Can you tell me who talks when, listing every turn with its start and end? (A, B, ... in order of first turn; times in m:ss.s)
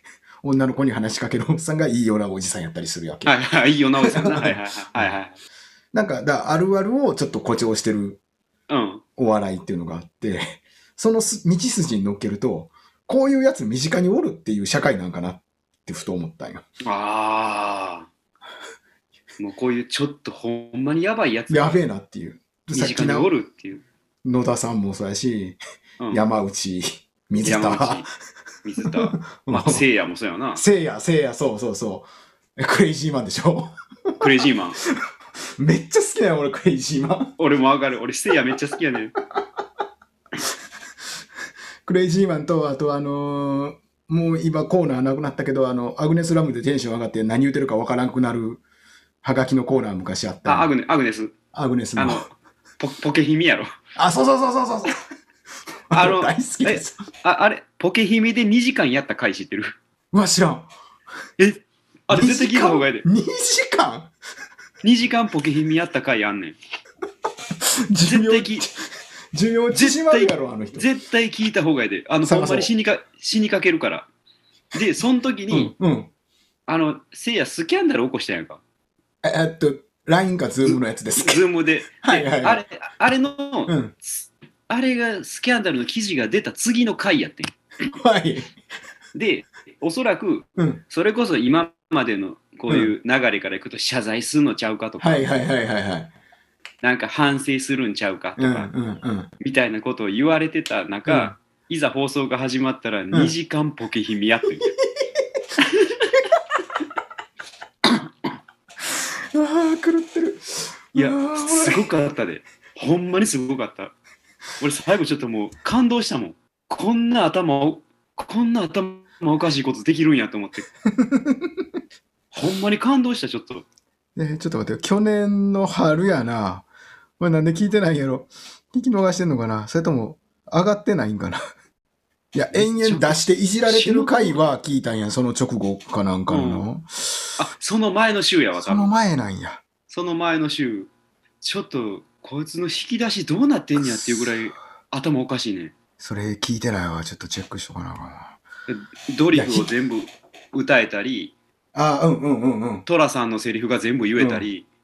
0:00.4-0:03.4 A
0:03.2-0:05.4 B
0:04.0-0:05.2 A
0:05.9-0:08.2 A
0:08.7-0:09.0 B
0:09.2-0:16.7 A
0:16.8-0:18.1 B
0:19.4-0:21.8 B
0:21.5-0:23.3 A
0:22.7-0:23.8 B
0:24.2-0:25.6 A
0:26.0-0:26.2 B
0:26.1-0:28.1 A
0:27.4-0:28.1 B
0:28.6-0:30.6 B
0:28.9-0:29.8 A
0:30.6-0:34.3 A
0:34.2-0:34.8 B
0:35.6-0:37.3 A
0:37.4-0:39.1 B
0:41.8-0:48.6 A
0:49.2-0:50.7 A
0:50.4-0:51.3 B
0:51.5-0:52.3 A
0:52.0-0:53.7 B
0:54.0-0:55.0 A
0:55.9-0:57.0 A
0:55.9-0:59.8 B
1:00.1-1:00.7 A
1:01.4-1:03.0 B
1:02.1-1:04.1 A
1:04.8-1:06.6 B
1:07.9-1:10.9 A
1:08.0-1:08.7 B
1:09.7-1:14.1 B
1:12.2-1:12.7 A
1:14.7-1:15.7 B
1:15.5-1:16.1 A
1:16.7-1:18.6 B
1:19.2-1:21.4 A
1:20.7-1:27.5 B
1:22.0-1:22.6 A
1:23.7-1:24.0 A
1:27.9-1:28.6 A
1:29.1-1:35.3 B
1:30.6-1:30.8 A
1:35.0-1:36.1 A
1:36.8-1:38.7 B
1:38.4-1:39.3 A
1:39.4-1:44.7 B
1:41.1-1:41.4 A
1:44.8-1:45.2 A
1:45.7-1:46.1 B
1:49.3-1:51.9 A
1:51.0-1:53.9 B
1:54.6-2:00.7 B
2:01.0-2:01.6 A
2:02.3-2:03.6 B
2:04.2-2:06.7 A
2:07.2-2:11.4 A
2:12.3-2:17.4 A
2:12.5-2:14.5 B
2:16.3-2:16.7 B
2:17.4-2:18.9 B
2:18.6-2:19.6 A
2:19.9-2:25.7 B
2:23.8-2:24.5 A
2:26.0-2:28.4 A
2:28.7-2:31.3 B
2:29.3-2:29.7 A
2:31.7-2:32.8 A
2:32.9-2:34.7 B
2:34.2-2:34.5 A